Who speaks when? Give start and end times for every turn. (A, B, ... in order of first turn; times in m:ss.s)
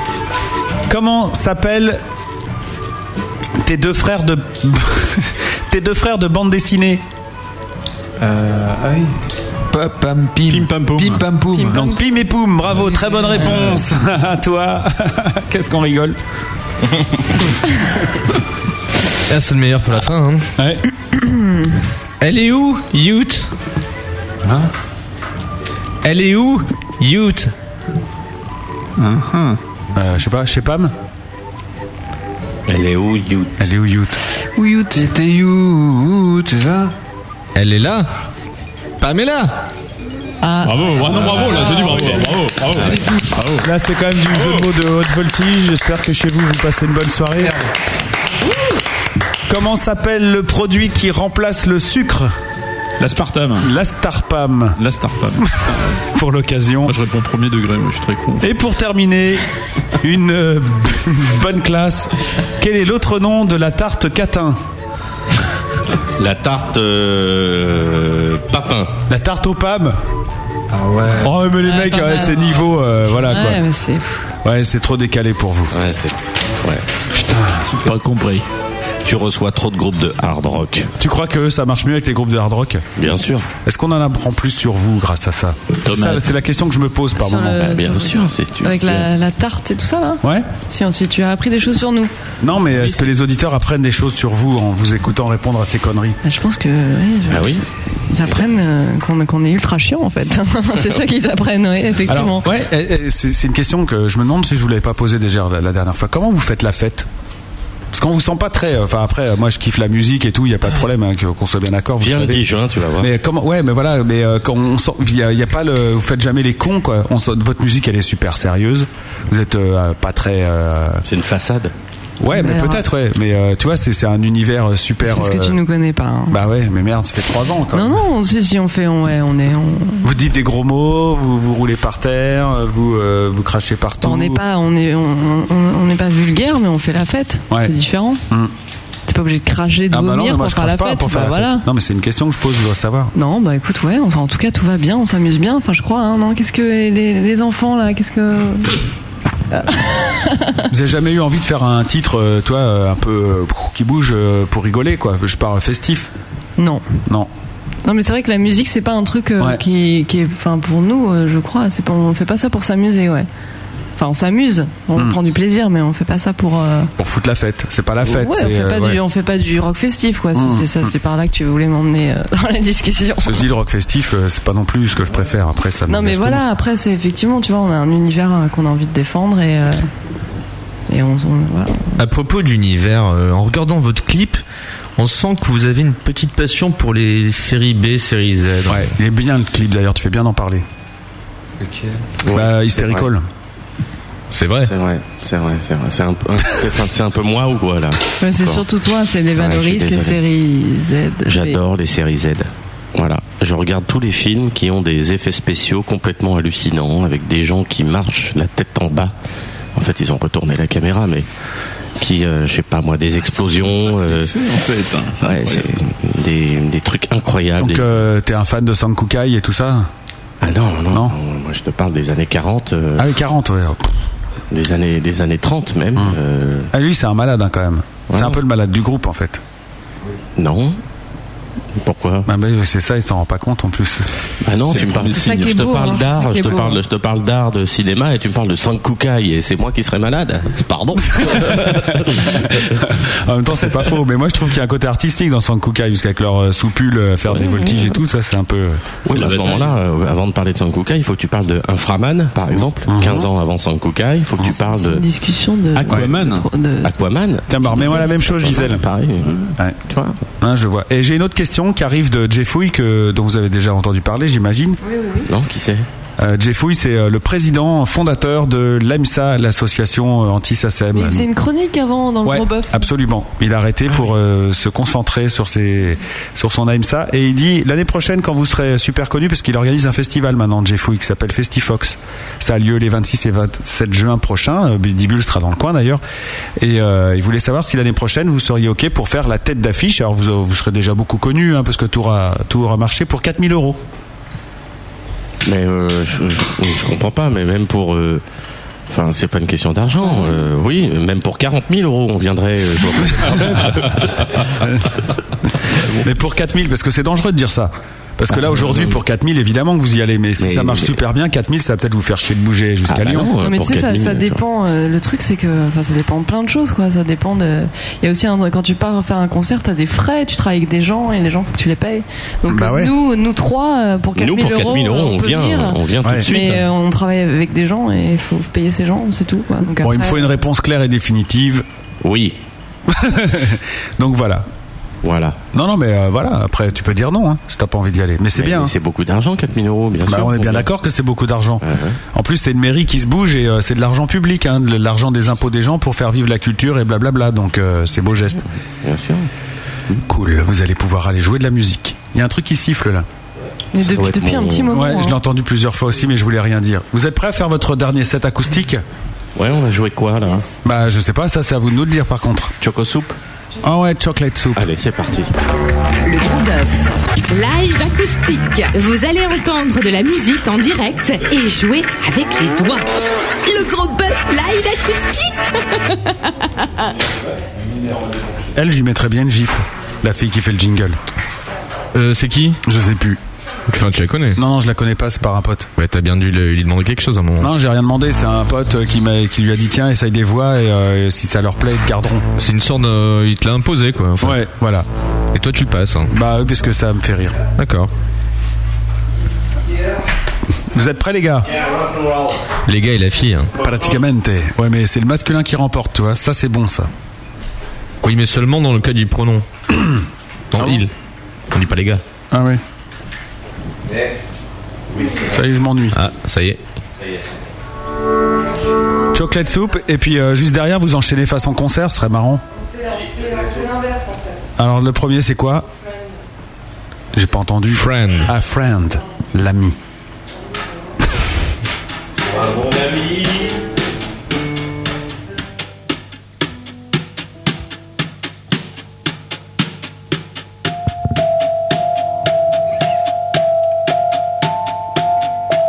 0:00.9-0:02.0 A
0:03.6-0:07.0 A
0:08.2-0:09.1 B
0:09.7-0:11.8 B
0:10.5-0:11.2 C
0:11.5-0:12.0 D
0:11.7-0:16.2 A
0:12.7-0:13.8 B
0:19.3-0:20.5 E
0:21.2-0:21.7 D
0:22.2-0:23.5 E
0:26.0-0:27.5 E
0:29.0-0:29.6 C
0:29.9-0:30.9 A
0:32.7-0:33.6 F
0:33.6-0:34.2 A
0:34.6-0:35.1 D
0:34.9-0:36.9 B
0:37.5-0:38.1 E
0:39.0-0:39.5 E
0:40.4-0:42.0 D
0:40.6-0:43.6 C
0:41.0-0:43.0 F
0:43.0-0:43.2 B
0:43.6-0:47.6 A
0:49.5-0:52.3 A
0:53.0-0:53.7 C
0:53.6-0:54.8 A
0:54.8-0:56.0 C
0:55.4-0:57.0 A
0:56.8-0:58.5 C
0:58.4-0:59.4 A
1:00.0-1:04.6 A
1:06.2-1:08.9 F
1:09.1-1:10.0 A
1:10.7-1:11.3 B
1:11.2-1:13.6 A
1:11.6-1:12.7 D
1:13.2-1:14.2 D
1:14.4-1:15.7 A
1:15.7-1:16.8 F
1:17.7-1:18.4 C
1:19.0-1:20.9 F
1:21.0-1:22.8 A
1:23.0-1:23.5 F
1:23.6-1:27.7 A
1:25.8-1:26.2 F
1:27.2-1:32.1 D
1:27.5-1:29.1 F
1:30.2-1:30.5 A
1:32.4-1:36.2 A
1:32.7-1:33.1 F
1:36.2-1:37.6 D
1:37.3-1:37.6 F
1:38.1-1:42.5 D
1:42.1-1:47.1 A
1:47.9-2:01.0 A
1:52.0-1:53.1 F
2:01.0-2:01.7 F
2:02.2-2:05.6 A
2:02.3-2:02.8 D
2:05.0-2:06.4 D
2:06.3-2:08.0 A
2:07.7-2:10.1 D
2:10.0-2:14.4 A
2:14.0-2:18.2 D
2:19.1-2:21.6 D
2:19.9-2:23.1 A
2:23.1-2:28.7 D
2:29.5-2:30.7 D
2:30.7-2:36.1 A
2:36.6-2:36.8 D
2:37.8-2:43.3 D
2:44.0-2:46.9 D
2:47.0-2:49.0 A
2:48.0-2:53.4 D
2:50.4-2:50.9 A
2:53.2-2:56.4 A
2:55.9-2:59.9 D
3:00.9-3:02.0 D
3:02.0-3:04.4 E
3:05.0-3:08.9 E
3:08.7-3:10.6 A
3:11.6-3:12.0 B
3:12.2-3:13.1 F
3:12.3-3:13.2 A
3:14.3-3:14.7 E
3:14.6-3:18.6 F
3:18.2-3:21.6 D
3:19.4-3:20.2 F
3:21.2-3:29.1 F
3:29.8-3:31.3 F
3:32.0-3:34.3 F
3:33.2-3:35.8 C
3:35.2-3:38.0 F
3:37.6-3:39.9 A
3:40.4-3:43.1 F
3:43.0-3:43.9 A
3:44.5-3:46.7 F
3:46.7-3:49.4 A
3:48.1-3:48.4 F
3:50.4-3:50.8 F
3:51.8-3:52.3 F
3:52.2-3:54.1 A
3:54.4-4:03.0 F
3:54.6-3:56.0 C
3:55.1-3:56.8 D
4:01.1-4:08.8 A
4:07.3-4:08.0 F
4:09.0-4:15.0 F
4:09.1-4:09.8 C
4:12.9-4:13.3 A
4:14.6-4:16.9 D
4:15.7-4:16.5 C
4:15.9-4:16.1 A
4:16.8-4:19.3 F
4:17.5-4:18.8 A
4:19.2-4:19.5 C
4:19.9-4:20.2 F
4:20.4-4:24.8 A
4:24.9-4:25.3 D
4:25.2-4:25.8 F
4:26.2-4:31.3 A
4:30.9-4:32.9 D
4:32.2-4:46.0 A
4:46.6-4:53.8 A
4:55.4-4:58.2 F
4:58.9-5:04.8 F
5:06.0-5:13.3 A
5:08.4-5:08.9 F
5:10.4-5:11.0 F
5:12.9-5:14.4 F
5:13.4-5:30.3 D
5:22.5-5:22.9 A
5:24.1-5:26.6 F
5:26.0-5:26.3 A
5:29.8-5:31.6 A
5:32.0-5:32.4 F
5:32.9-5:34.4 A
5:35.0-5:35.4 F
5:35.5-5:38.7 A
5:38.3-5:40.7 F
5:40.0-5:48.4 A
5:41.6-5:42.0 F
5:48.8-5:49.3 F
5:50.0-5:53.1 A
5:53.7-5:55.2 D
5:53.8-5:54.7 F
5:54.7-5:58.8 A
5:59.4-6:00.5 F
6:00.6-6:02.5 A
6:02.6-6:03.2 F
6:03.6-6:04.7 A
6:04.5-6:05.3 F
6:06.0-6:12.9 G
6:13.4-6:16.9 G
6:18.5-6:21.0 A
6:21.9-6:22.6 E
6:22.6-6:23.2 A
6:23.7-6:24.4 E
6:24.3-6:25.7 A
6:25.8-6:27.5 E
6:27.4-6:32.2 A
6:32.4-6:34.4 E
6:34.2-6:34.9 A
6:35.3-6:36.1 E
6:36.1-6:37.4 A
6:37.6-6:37.9 E
6:40.7-6:41.5 A
6:41.9-6:42.3 F
6:42.6-6:43.5 E
6:43.6-6:46.9 A
6:48.0-6:49.4 E
6:50.5-6:50.9 E
6:50.6-6:50.8 A
6:51.5-6:52.0 E
6:52.3-6:52.6 A
6:55.2-6:56.0 A
6:55.9-6:56.6 E
6:59.1-7:02.4 A
7:04.6-7:05.7 A
7:07.1-7:09.8 A
7:07.7-7:08.3 E
7:12.6-7:13.2 F